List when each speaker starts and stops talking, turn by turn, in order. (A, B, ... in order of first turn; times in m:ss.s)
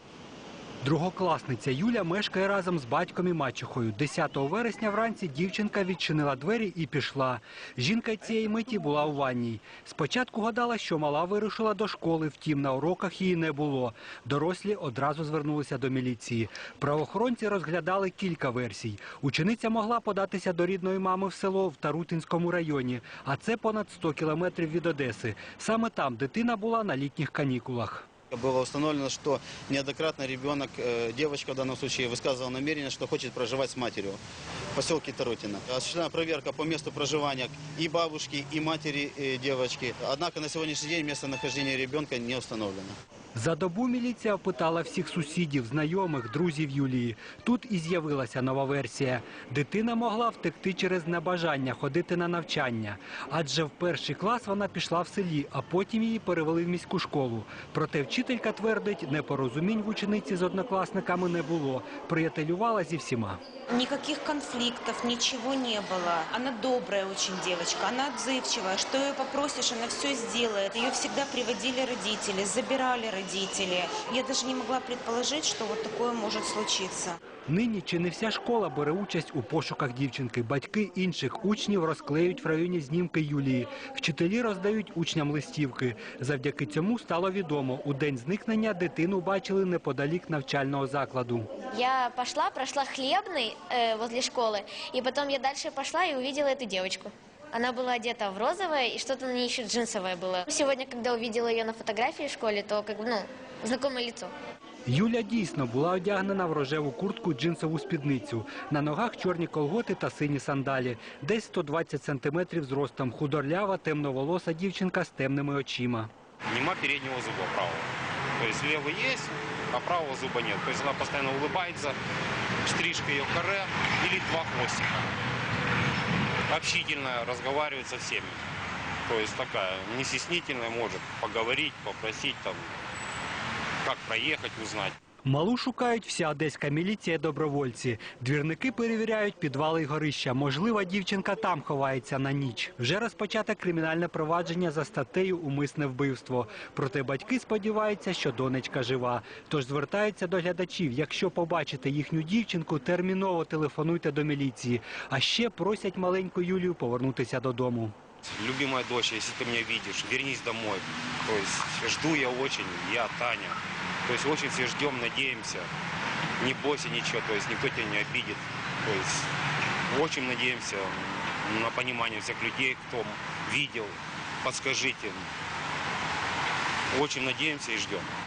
0:00.8-0:28.1 A
0:28.3-0:34.2 B
0:34.7-0:43.0 B
0:43.4-1:03.4 A
1:03.7-1:17.2 C
1:17.5-1:31.5 A
1:31.7-1:44.3 D
1:44.9-1:56.1 A
1:56.5-2:02.0 E
2:02.6-2:05.1 E
2:06.5-2:08.5 E
2:09.1-2:12.8 E
2:13.8-2:15.0 E
2:15.3-2:37.9 A
2:38.3-2:45.7 E
2:46.4-2:49.3 E
2:49.9-2:55.3 E
2:56.9-2:58.1 E